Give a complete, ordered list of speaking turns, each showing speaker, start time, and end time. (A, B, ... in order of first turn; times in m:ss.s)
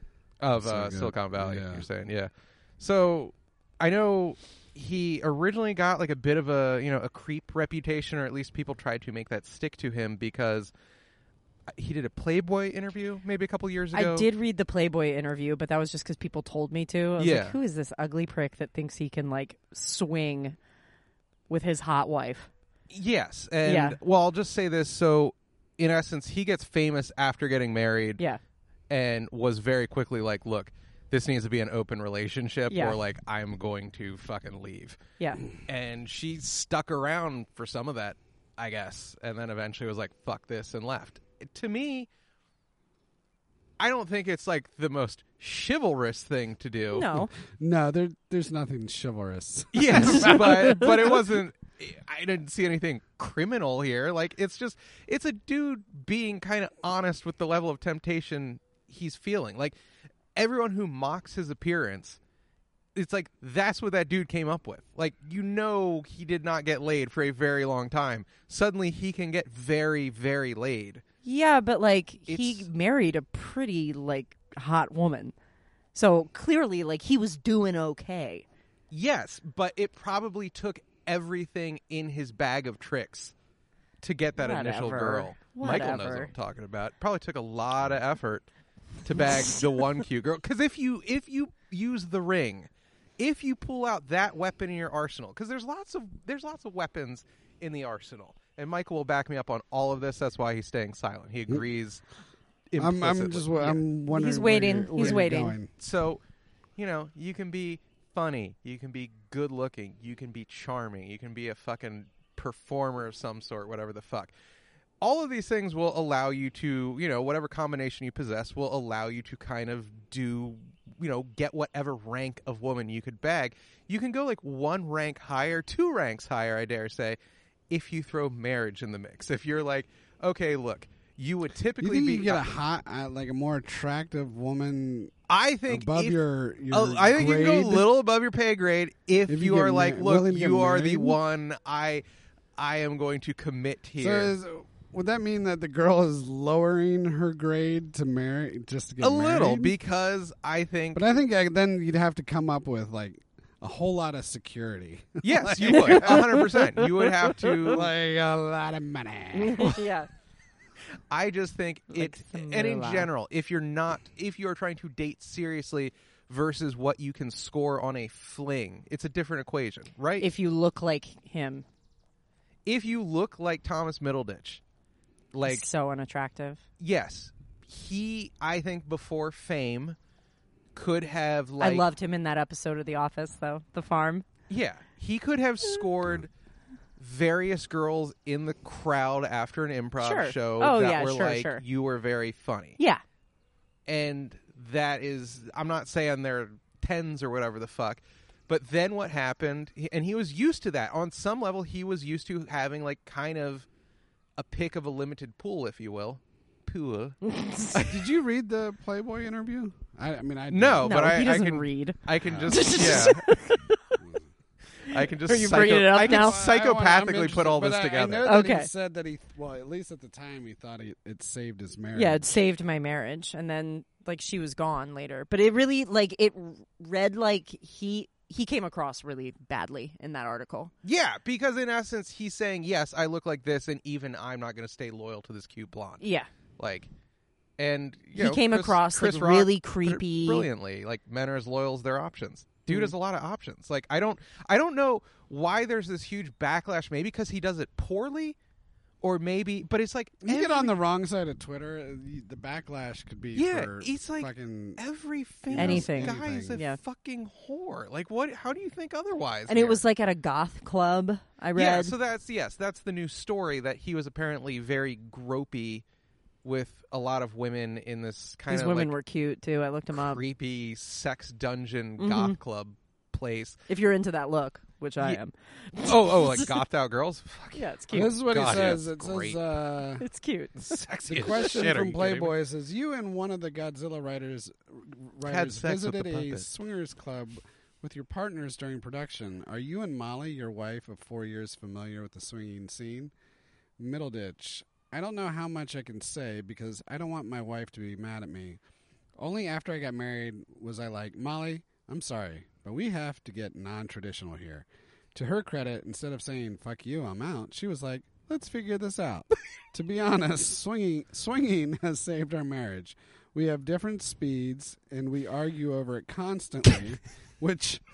0:00.4-0:10.7 A
0:00.6-0:01.8 B
0:11.7-0:14.3 A
0:13.9-0:20.6 C
0:17.2-0:17.6 A
0:21.5-0:22.5 C
0:22.9-0:28.2 A
0:23.6-0:24.0 C
0:28.9-0:35.0 A
0:32.7-0:33.0 C
0:35.2-0:35.4 C
0:35.6-0:42.1 A
0:43.8-0:47.1 A
0:46.9-0:47.3 C
0:47.4-0:51.2 B
0:49.7-0:59.8 A
0:50.1-0:50.8 C
1:00.3-1:02.2 A
1:02.9-1:11.0 A
1:11.2-1:15.3 C
1:12.3-1:12.6 A
1:15.9-1:18.4 C
1:18.9-1:23.3 A
1:24.0-1:28.5 A
1:24.4-1:26.3 C
1:29.0-1:42.0 A
1:42.7-1:43.8 A
1:42.8-1:45.7 B
1:44.1-1:45.6 C
1:45.8-1:46.2 A
1:46.8-1:54.3 A
1:55.0-2:07.2 A
2:07.7-2:12.5 A
2:11.8-2:15.1 B
2:15.3-2:22.0 A
2:15.7-2:17.9 B
2:19.3-2:21.2 B
2:22.6-2:24.3 A
2:24.0-2:29.7 B
2:29.0-2:31.0 A
2:30.9-2:36.5 B
2:35.2-2:37.8 A
2:35.8-2:37.5 C
2:37.6-2:39.8 B
2:39.3-2:40.1 C
2:41.1-2:50.3 A
2:41.9-2:43.1 C
2:50.2-2:51.6 C
2:52.6-2:54.6 A
2:55.3-2:55.6 A
2:55.4-2:56.6 C
2:56.8-3:00.0 A
3:00.7-3:01.8 A
3:01.6-3:04.2 C
3:04.5-3:06.3 A
3:07.0-3:12.8 A
3:10.0-3:11.6 C
3:13.9-3:23.7 A
3:24.4-3:28.0 A
3:27.2-3:27.7 C
3:27.8-3:31.0 B
3:30.5-3:33.3 A
3:30.8-3:34.0 C
3:32.2-3:32.7 B
3:34.0-3:34.2 B
3:34.8-3:38.3 A
3:34.9-3:36.4 C
3:36.0-3:42.4 B
3:38.2-3:38.7 C
3:41.9-3:50.7 C
3:50.8-3:56.0 A
3:56.0-3:56.3 C
3:56.6-3:56.9 A
3:57.6-4:08.4 A
3:58.1-4:00.5 C
4:09.0-4:10.8 A
4:10.2-4:14.8 B
4:13.3-4:19.8 A
4:15.5-4:16.6 B
4:15.6-4:16.8 C
4:19.5-4:21.9 C
4:21.5-4:25.8 A
4:26.4-4:28.9 A
4:28.5-4:30.2 C
4:29.9-4:33.6 A
4:32.0-4:32.4 C
4:33.7-4:36.6 C
4:35.8-4:39.4 A
4:37.5-4:38.2 C
4:37.9-4:40.0 B
4:40.0-4:40.8 C
4:40.6-4:42.3 A
4:41.1-4:53.1 B
4:45.2-4:46.5 A
4:53.8-4:58.6 B
4:59.2-5:17.8 B